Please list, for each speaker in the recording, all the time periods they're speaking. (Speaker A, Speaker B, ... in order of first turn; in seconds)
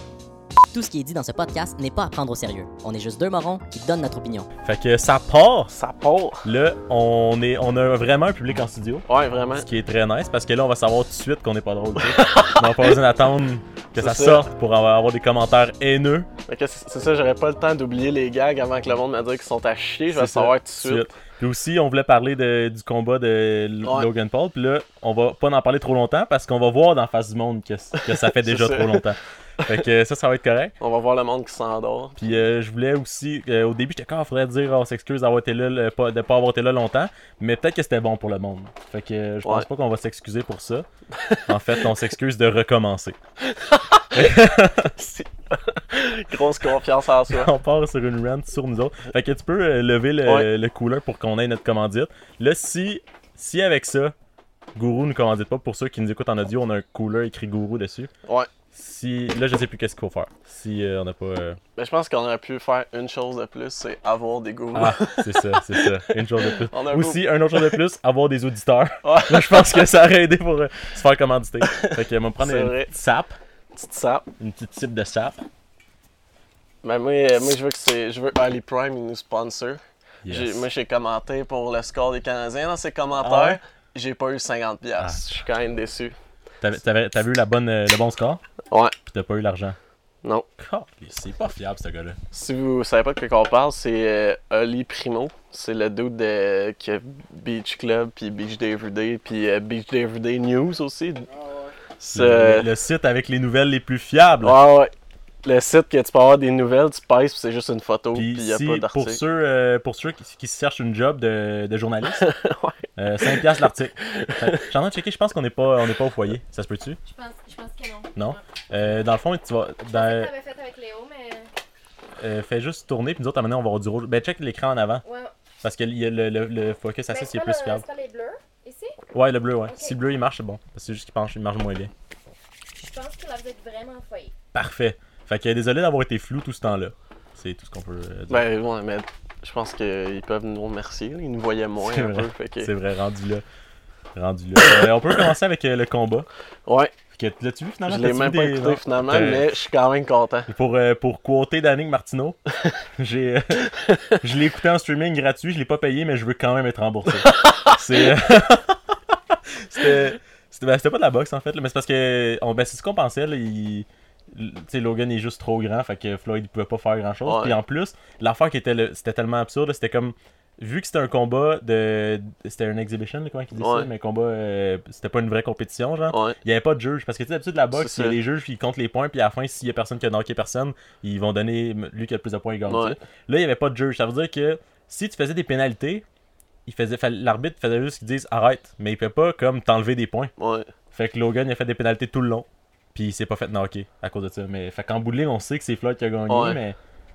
Speaker A: 0.7-4.5
Speaker B: 4.6-5.7, 6.4-16.3, 20.1-30.7, 32.2-40.9, 41.5-43.2, 44.1-44.9, 47.3-54.1, 54.7-58.1, 58.7-61.6, 64.7-73.3, 74.4-75.4, 80.2-80.7, 83.2-83.6, 85.0-85.2, 86.6-88.4, 89.0-89.8, 90.6-92.2, 102.1-104.6, 108.1-112.3, 113.0-117.0, 118.2-120.3, 122.2-125.0, 125.6-127.8, 129.1-131.9, 134.5-138.4, 141.8-143.4, 144.1-146.3, 147.1-149.5, 150.5-152.4, 152.9-186.0, 186.7-190.3, 190.9-196.8
Speaker C: 5.7-6.4, 9.1-9.6, 12.0-12.9, 13.9-14.4, 16.5-21.0, 23.8-24.1, 27.9-29.1, 30.8-32.3, 41.1-41.8, 43.4-44.3, 45.0-47.5, 58.2-58.5, 61.8-67.8, 69.0-69.9, 71.6-72.9, 73.7-74.3, 76.8-86.2, 88.7-89.0, 92.3-101.3, 102.0-102.7, 104.4-104.9, 105.4-109.2, 112.2-113.4, 114.1-114.6, 138.3-142.7, 146.7-146.9, 147.9-150.5, 153.7-154.2, 157.2-157.7, 167.2-167.6, 173.5-173.9, 176.1-176.4, 177.7-178.2, 182.7-183.0, 190.4-190.7, 196.3-196.6
Speaker D: 117.0-118.4, 119.9-121.5, 125.0-125.3, 127.1-128.9, 129.7-130.0, 132.7-134.3